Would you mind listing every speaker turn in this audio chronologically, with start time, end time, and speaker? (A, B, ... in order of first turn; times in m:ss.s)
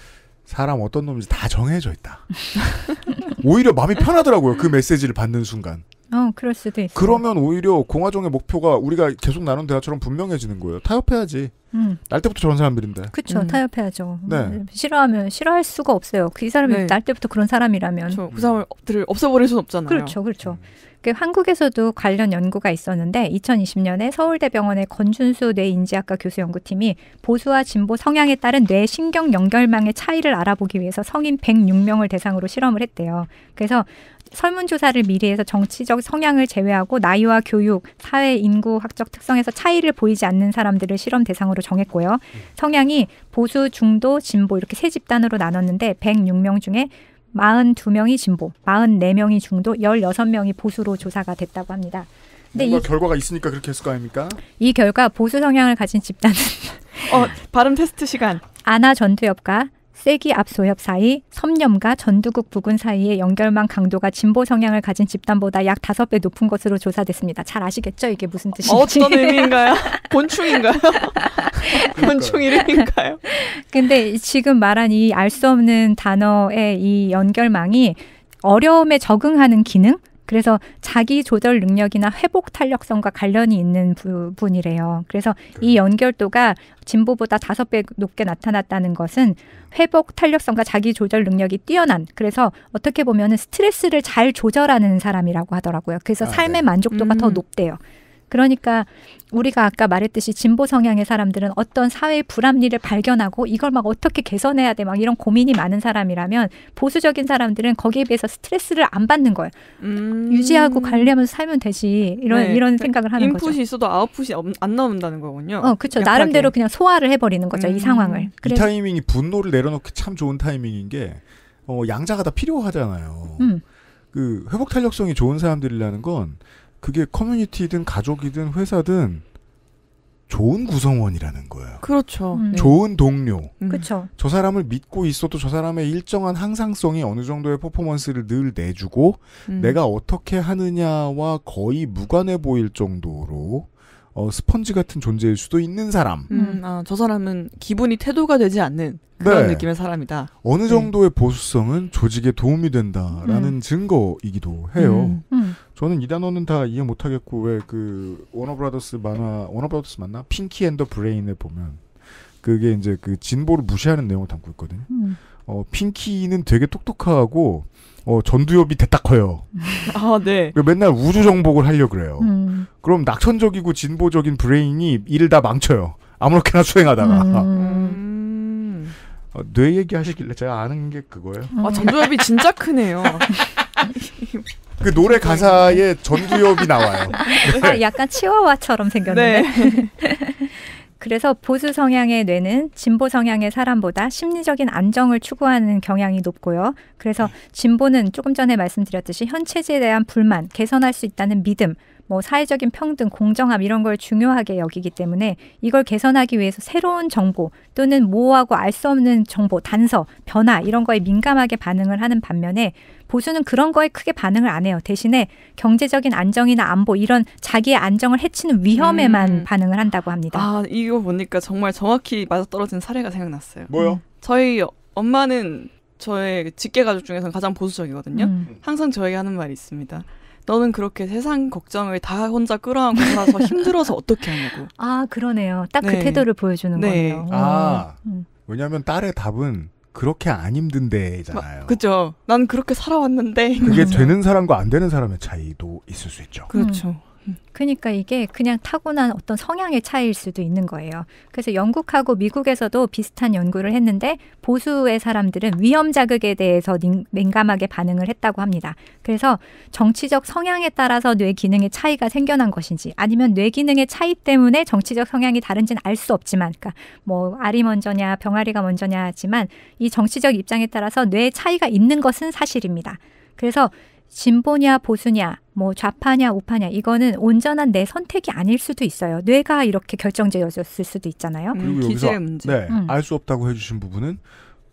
0:00.5-0:05.8 A
0:06.1-0:07.2 B
0:07.0-0:11.6 A
0:11.7-0:12.0 B
0:12.1-0:13.1 A
0:13.1-0:18.2 B
0:13.3-0:13.6 C
0:14.2-0:14.6 A
0:16.6-0:17.0 C
0:18.1-0:20.2 C
0:18.3-0:18.6 A
0:19.9-0:52.9 B
0:20.4-0:20.7 A
0:52.5-0:54.4 A
0:54.6-0:57.3 B
0:57.1-0:58.4 C
0:58.6-1:09.7 B
1:08.6-1:13.2 C
1:11.9-1:12.4 A
1:13.3-1:49.6 B
1:36.2-1:36.6 A
1:36.9-1:37.4 C
1:49.8-1:51.1 C
1:50.3-1:53.6 B
1:52.3-1:56.5 C
1:55.6-1:58.7 B
1:57.5-1:58.3 C
1:58.4-2:03.5 A
2:04.1-2:09.2 A
2:10.3-2:11.8 A
2:11.8-2:12.8 C
2:12.4-2:12.7 B
2:12.5-2:13.6 A
2:13.6-2:13.9 C
2:13.7-2:14.1 B
2:14.1-2:26.3 A
2:19.5-2:19.8 C
2:26.3-2:30.9 C
2:26.3-2:26.6 B
2:29.2-2:29.7 A
2:30.4-2:41.8 A
2:33.3-2:33.5 B
2:34.8-2:35.2 C
2:35.3-2:35.6 B
2:42.4-2:49.7 A
2:44.9-2:45.2 B
2:49.9-2:50.6 C
2:50.5-2:57.5 A
2:52.2-2:52.7 B
2:57.0-2:58.0 B
2:57.6-2:59.0 C
2:59.3-3:01.9 A
3:01.5-3:01.9 B
3:01.6-3:05.8 C
3:04.8-3:07.8 A
3:07.1-3:07.7 C
3:07.2-3:40.5 B
3:09.1-3:09.9 C
3:38.8-3:39.5 C
3:40.3-3:54.7 C
3:43.7-3:44.0 A
3:48.1-3:48.5 B
3:54.8-3:58.3 B
3:55.8-3:57.3 C
3:57.3-4:01.8 A
4:01.3-4:04.1 C
4:03.6-4:04.1 B
4:03.7-4:06.5 A
4:06.5-4:07.4 C
4:06.5-4:06.9 B
4:07.5-4:41.6 B
4:41.5-4:42.6 C
4:41.6-4:44.2 A
4:42.7-4:43.0 B